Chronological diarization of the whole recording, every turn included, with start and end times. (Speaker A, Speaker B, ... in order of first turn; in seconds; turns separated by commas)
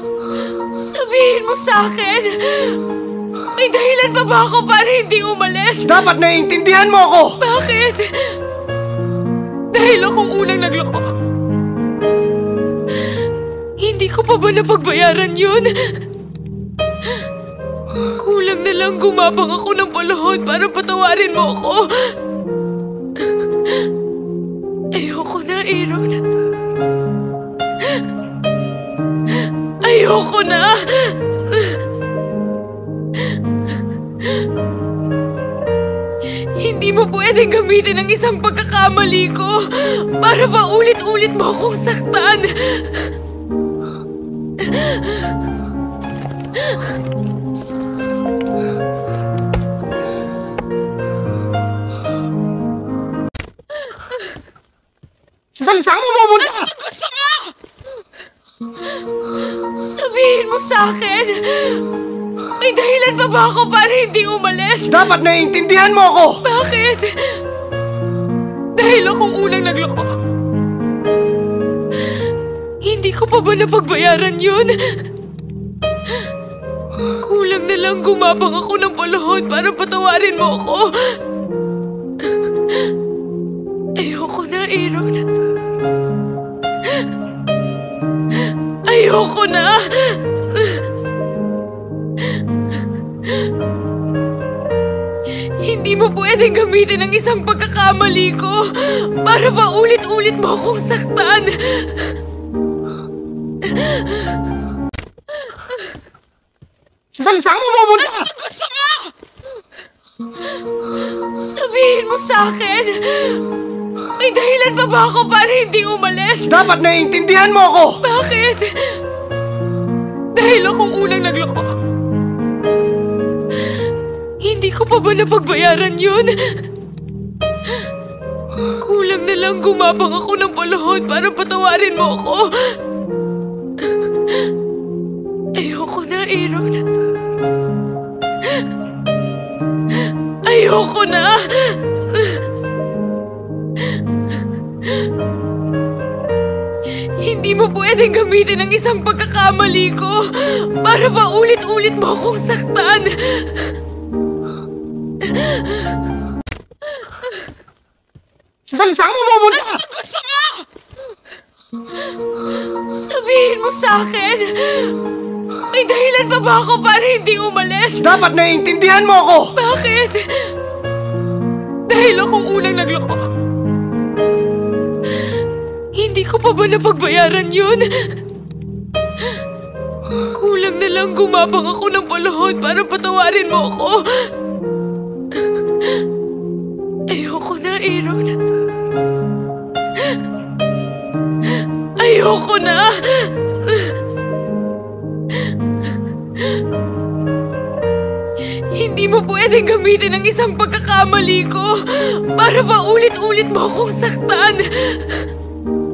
Speaker A: 0.8-2.8, Speaker A: 3.5-6.0, Speaker B: 5.8-7.4, Speaker A: 7.4-8.4, Speaker A: 9.7-11.2, Speaker A: 13.8-16.0, Speaker A: 18.2-22.2, Speaker A: 23.4-23.7, Speaker A: 24.9-26.2, Speaker A: 29.4-31.8, Speaker A: 36.5-43.2, Speaker A: 44.6-45.3, Speaker B: 55.5-56.7, Speaker A: 56.4-57.5, Speaker A: 59.8-61.9, Speaker A: 62.6-65.0, Speaker B: 64.9-66.4, Speaker A: 66.4-67.4, Speaker A: 68.8-70.2, Speaker A: 72.8-75.1, Speaker A: 77.2-81.2, Speaker A: 84.0-85.3, Speaker A: 88.4-90.9, Speaker A: 95.6-102.2, Speaker A: 103.6-104.3, Speaker B: 107.1-108.3, Speaker A: 108.1-109.1, Speaker A: 111.4-113.4, Speaker A: 114.2-116.6, Speaker B: 116.4-118.0, Speaker A: 118.0-119.0, Speaker A: 120.3-121.8, Speaker A: 124.4-126.7, Speaker A: 128.8-132.8, Speaker A: 135.6-136.8, Speaker A: 140.0-142.5, Speaker A: 147.2-153.8, Speaker A: 155.2-155.9, Speaker B: 158.7-159.8, Speaker A: 159.5-160.7, Speaker A: 162.9-165.0, Speaker A: 165.7-168.1, Speaker B: 168.0-169.5, Speaker A: 169.6-170.6, Speaker A: 171.9-173.3, Speaker A: 175.9-178.2, Speaker A: 180.3-184.3, Speaker A: 187.1-188.4, Speaker A: 191.6-194.0, Speaker A: 198.7-205.3